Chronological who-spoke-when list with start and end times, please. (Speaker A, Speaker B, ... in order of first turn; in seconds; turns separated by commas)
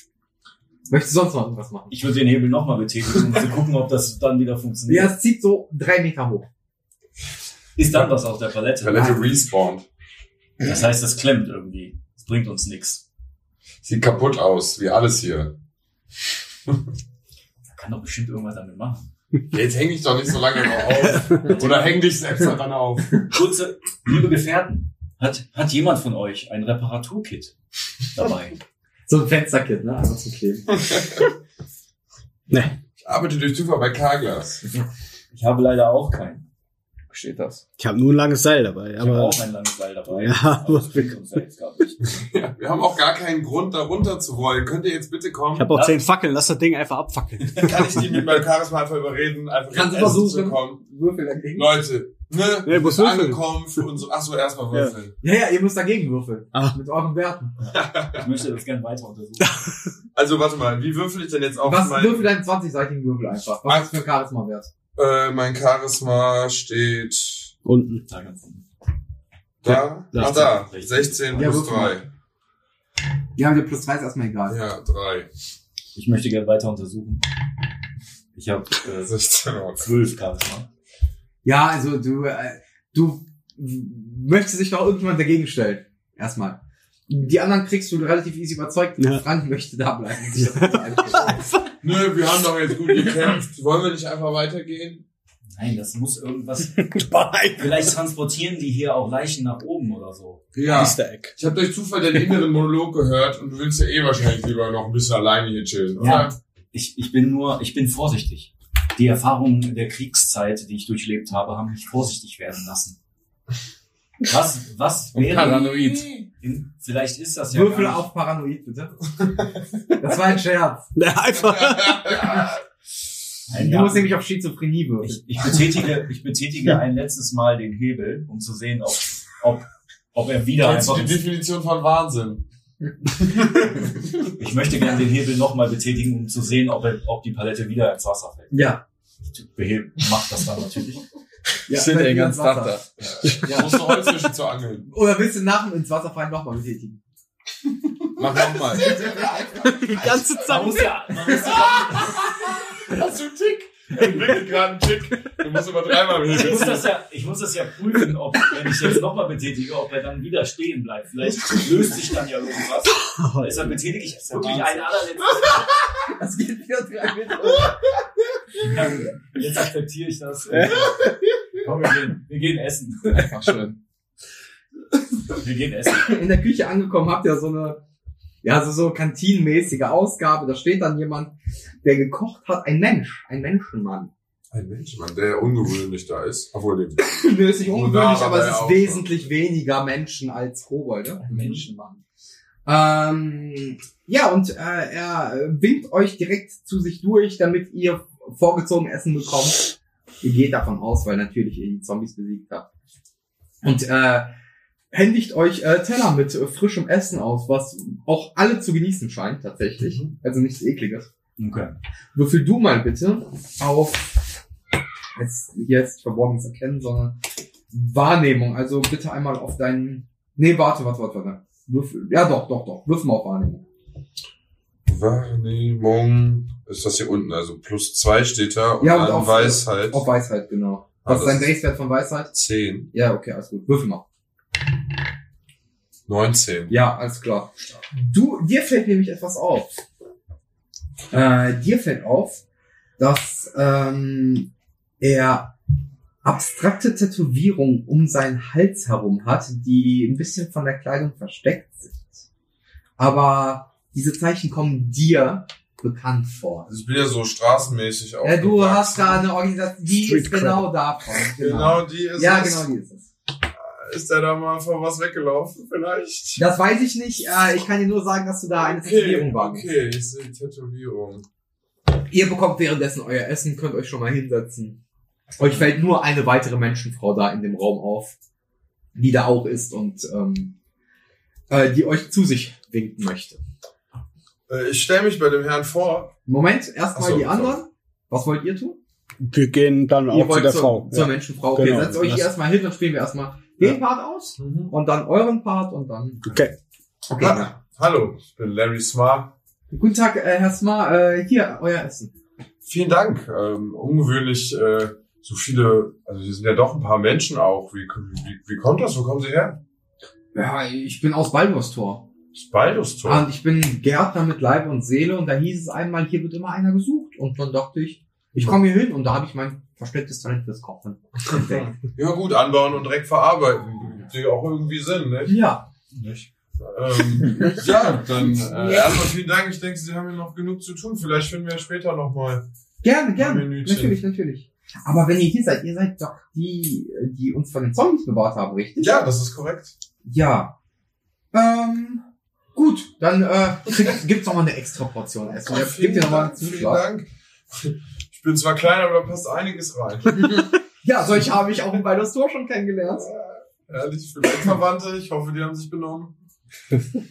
Speaker A: 0.9-1.9, Speaker B: 1.9-5.1, Speaker A: 4.9-6.5, Speaker B: 7.8-9.2, Speaker C: 8.8-9.9, Speaker B: 10.6-13.0, Speaker C: 13.8-15.5, Speaker B: 17.7-19.1, Speaker C: 19.5-23.1, Speaker B: 21.4-22.1, Speaker B: 23.3-27.5, Speaker B: 28.1-28.6, Speaker A: 29.1-31.2, Speaker C: 30.8-31.2, Speaker D: 32.5-32.8, Speaker C: 33.0-34.6, Speaker B: 35.3-36.5, Speaker E: 37.1-37.6, Speaker D: 37.8-39.4, Speaker B: 39.0-42.2, Speaker D: 40.1-41.2, Speaker C: 42.1-45.7, Speaker D: 45.5-48.2, Speaker B: 45.7-46.0, Speaker C: 47.5-50.8, Speaker A: 49.7-51.8, Speaker C: 51.5-55.1, Speaker D: 52.6-53.8, Speaker A: 55.2-57.6, Speaker C: 57.6-58.3, Speaker B: 58.1-59.6, Speaker D: 59.4-59.7, Speaker C: 60.1-62.3, Speaker A: 61.6-64.7, Speaker C: 63.6-63.9, Speaker C: 64.9-67.5, Speaker D: 67.6-68.0, Speaker B: 68.1-68.7, Speaker C: 69.6-72.1, Speaker D: 69.7-70.5, Speaker B: 70.1-71.6, Speaker A: 71.3-72.0, Speaker A: 73.3-74.6, Speaker C: 74.5-75.3, Speaker B: 75.9-77.2, Speaker B: 78.3-79.1, Speaker C: 79.0-79.9, Speaker B: 79.7-80.7, Speaker A: 81.4-91.5, Speaker D: 89.0-89.2, Speaker D: 90.3-91.4, Speaker C: 91.8-95.0, Speaker B: 95.5-96.8, Speaker D: 96.8-97.9, Speaker B: 97.6-100.4, Speaker C: 100.5-106.3, Speaker D: 100.6-101.3, Speaker B: 106.0-113.0, Speaker A: 106.0-106.2, Speaker B: 114.2-118.0, Speaker E: 115.1-116.2, Speaker A: 117.5-119.2, Speaker A: 119.9-120.9, Speaker D: 121.0-122.3, Speaker C: 121.3-122.6, Speaker B: 123.5-124.2, Speaker A: 123.5-125.6, Speaker B: 125.0-131.2, Speaker C: 130.6-132.4, Speaker C: 133.1-134.3, Speaker B: 134.4-138.7, Speaker A: 138.5-138.8, Speaker B: 139.3-141.0, Speaker A: 141.7-142.8, Speaker E: 141.7-142.9, Speaker C: 143.1-144.9, Speaker A: 143.4-144.1, Speaker A: 144.9-147.0, Speaker C: 148.1-150.3, Speaker A: 148.8-151.7, Speaker B: 150.4-152.2, Speaker C: 151.7-156.9, Speaker B: 156.3-165.7, Speaker D: 163.1-163.8, Speaker A: 166.0-167.9, Speaker B: 168.6-171.0, Speaker B: 171.6-173.3, Speaker E: 173.1-173.8, Speaker B: 175.3-176.2, Speaker A: 176.0-177.8, Speaker A: 178.4-184.1, Speaker C: 184.5-189.2, Speaker A: 187.0-192.0, Speaker C: 191.3-191.6, Speaker A: 192.7-202.7, Speaker A: 203.6-204.3, Speaker A: 204.9-211.1, Speaker C: 209.8-210.1, Speaker B: 211.4-211.8, Speaker A: 212.1-214.3, Speaker A: 215.2-217.2, Speaker A: 217.7-223.6, Speaker C: 224.8-230.1, Speaker A: 228.8-232.3, Speaker C: 231.0-231.5, Speaker C: 232.3-232.9, Speaker A: 232.9-234.0, Speaker C: 236.1-236.8, Speaker A: 236.7-239.7, Speaker A: 241.1-242.4, Speaker A: 243.0-245.5, Speaker A: 246.2-252.2, Speaker A: 253.0-256.7, Speaker C: 256.7-259.2, Speaker A: 258.2-263.1, Speaker D: 260.0-260.7, Speaker C: 261.4-262.7, Speaker C: 263.5-266.4, Speaker A: 266.4-269.7, Speaker C: 268.5-271.2, Speaker A: 272.1-274.8, Speaker A: 275.4-278.1, Speaker A: 278.9-280.5, Speaker A: 281.5-283.4, Speaker C: 284.5-286.1, Speaker A: 286.3-288.8, Speaker C: 286.9-287.6, Speaker D: 289.2-292.3, Speaker A: 290.1-296.4, Speaker C: 294.4-294.7, Speaker D: 296.2-296.5, Speaker A: 297.1-297.5, Speaker C: 297.2-299.3, Speaker A: 299.7-302.1, Speaker C: 302.6-309.6, Speaker A: 310.3-312.1, Speaker C: 312.4-313.2, Speaker A: 313.0-321.7, Speaker C: 321.3-325.4, Speaker A: 325.3-325.7, Speaker B: 325.9-326.3, Speaker C: 326.6-332.4, Speaker A: 327.3-327.6, Speaker A: 328.3-329.0, Speaker A: 332.8-338.9, Speaker C: 333.2-334.0, Speaker C: 338.8-339.7, Speaker A: 340.0-340.5, Speaker A: 341.3-342.0, Speaker A: 342.5-346.8, Speaker C: 345.5-350.3, Speaker A: 350.2-353.1, Speaker C: 353.0-356.1